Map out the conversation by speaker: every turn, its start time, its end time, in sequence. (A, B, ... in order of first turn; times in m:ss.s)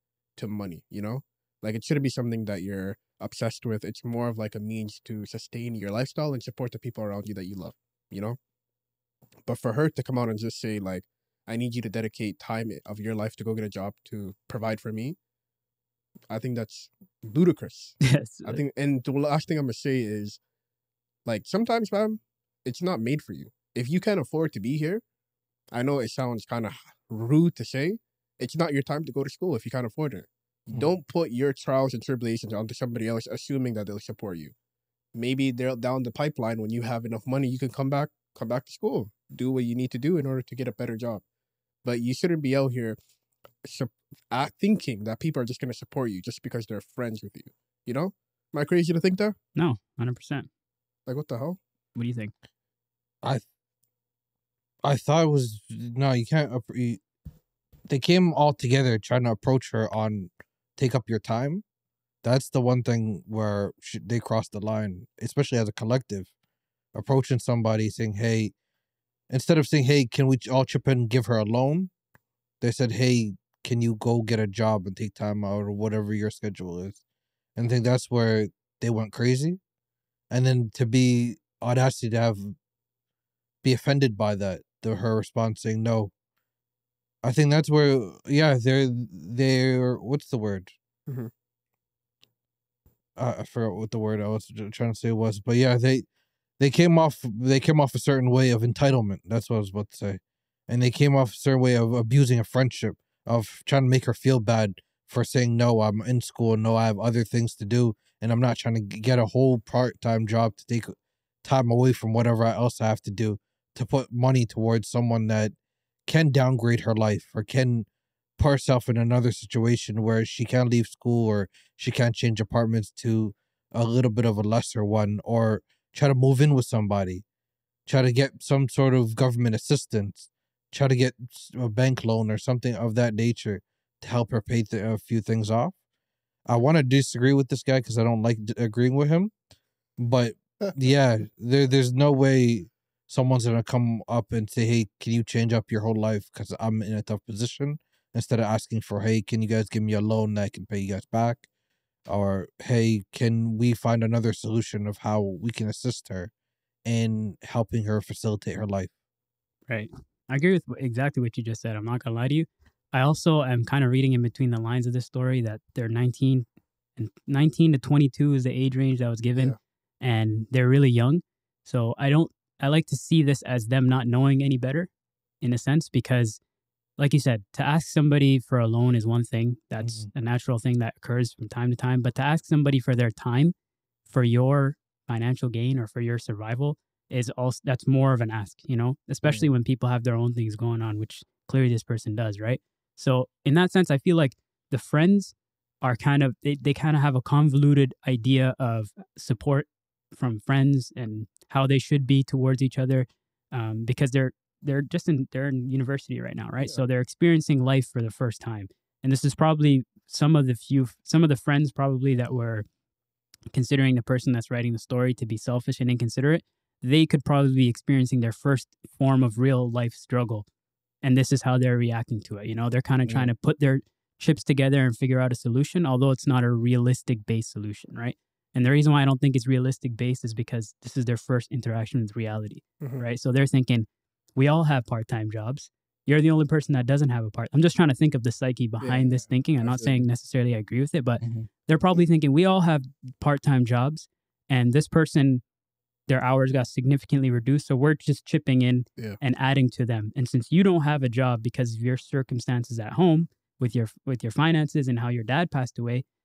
0:00.4-0:08.4 A
0:09.4-0:15.2 A
0:16.3-0:20.4 A
0:18.0-0:18.6 B
0:21.2-0:25.0 A
0:25.7-0:34.5 A
0:35.1-0:41.2 A
0:41.8-0:43.0 A
0:43.6-0:49.4 A
0:49.6-0:50.5 B
0:51.1-0:51.6 A
0:51.9-0:52.3 B
0:54.8-0:57.0 C
0:57.9-1:01.6 C
1:02.2-1:06.3 C
1:06.9-1:08.5 C
1:09.3-1:11.9 C
1:12.6-1:17.0 C
1:17.6-1:19.6 C
1:20.3-1:22.6 C
1:23.6-1:26.1 C
1:27.2-1:30.7 C
1:33.2-1:36.0 C
1:36.6-1:55.5 C
1:56.1-1:57.9 C
1:58.4-2:07.2 C
2:07.9-2:15.7 C
2:16.5-2:19.3 C
2:20.0-2:31.4 C
2:32.1-2:36.3 C
2:36.8-2:38.9 C
2:39.7-2:46.4 B
2:47.0-2:54.9 B
2:55.4-2:56.4 B
2:57.0-3:03.5 B
2:59.8-3:00.1 C
3:04.0-3:32.6 B
3:33.5-3:40.4 B
3:41.0-4:05.4 B
3:52.8-3:53.1 A
3:58.8-4:00.0 A
4:01.2-4:01.5 C
4:06.1-4:16.0 B